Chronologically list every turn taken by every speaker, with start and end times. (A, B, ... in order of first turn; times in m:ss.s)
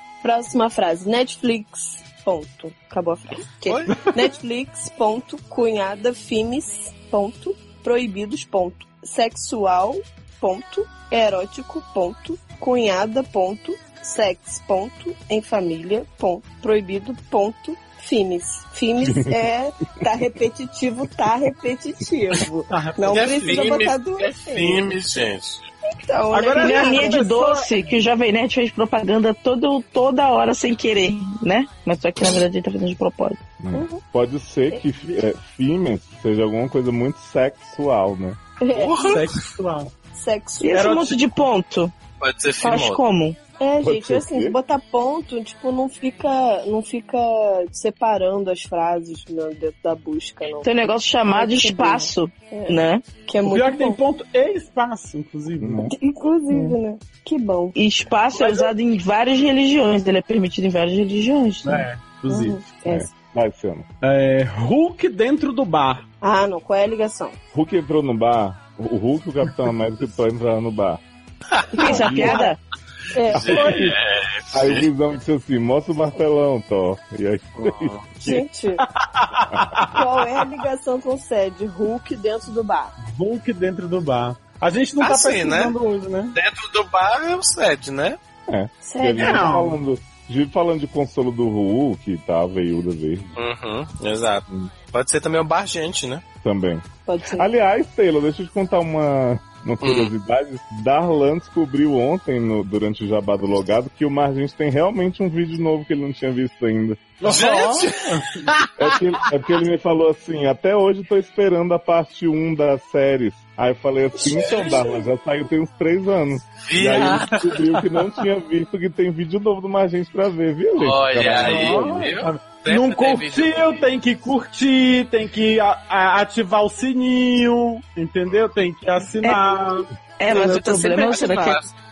0:00.2-0:24.8 A
0:03.7-0:04.0 B
0:03.9-0:04.2 C
0:19.0-0:19.4 D
0:22.7-0:23.9 C
0:23.1-0:25.7 B
0:26.0-0:27.5 A
0:26.3-0:27.7 C
0:26.6-0:33.4 E
0:33.6-0:38.4 D
0:33.7-0:34.0 A
0:38.6-0:39.3 A
0:38.7-0:39.3 B
0:39.0-0:39.9 C
0:40.1-0:40.9 A
0:40.6-0:41.9 E
0:40.7-0:41.2 C
0:42.2-0:43.0 B
0:42.6-0:43.4 E
0:43.6-0:50.7 A
0:43.8-0:44.6 D
0:50.6-0:53.0 E
0:51.3-0:54.0 A
0:53.4-0:55.9 C
0:55.6-0:55.9 D
0:55.9-0:57.8 A
0:56.5-0:56.8 E
0:57.8-1:01.9 E
0:58.3-0:58.7 C
1:01.6-1:02.6 C
1:02.3-1:03.1 A
1:02.9-1:03.8 D
1:04.0-1:06.0 C
1:06.2-1:07.4 A
1:07.5-1:11.0 D
1:11.7-1:12.5 A
1:11.7-1:12.6 E
1:11.8-1:12.4 D
1:13.1-1:13.9 A
1:13.3-1:14.9 B
1:13.3-1:13.8 D
1:14.5-1:18.0 D
1:17.6-1:18.1 B
1:18.2-1:18.8 A
1:19.1-1:20.0 C
1:19.5-1:19.8 D
1:19.9-1:22.9 A
1:23.0-1:26.4 C
1:25.0-1:25.7 B
1:26.3-1:28.2 B
1:28.5-1:33.4 D
1:28.8-1:29.6 A
1:29.2-1:29.8 C
1:33.4-1:36.2 B
1:36.4-1:47.0 D
1:37.0-1:37.5 A
1:39.8-1:40.1 B
1:47.2-1:48.4 C
1:47.2-1:48.7 B
1:48.8-2:02.1 D
1:54.2-1:54.9 A
1:56.6-1:57.6 B
2:00.8-2:03.8 B
2:01.4-2:09.9 C
2:10.2-2:11.6 E
2:10.3-2:11.6 A
2:11.1-2:11.6 B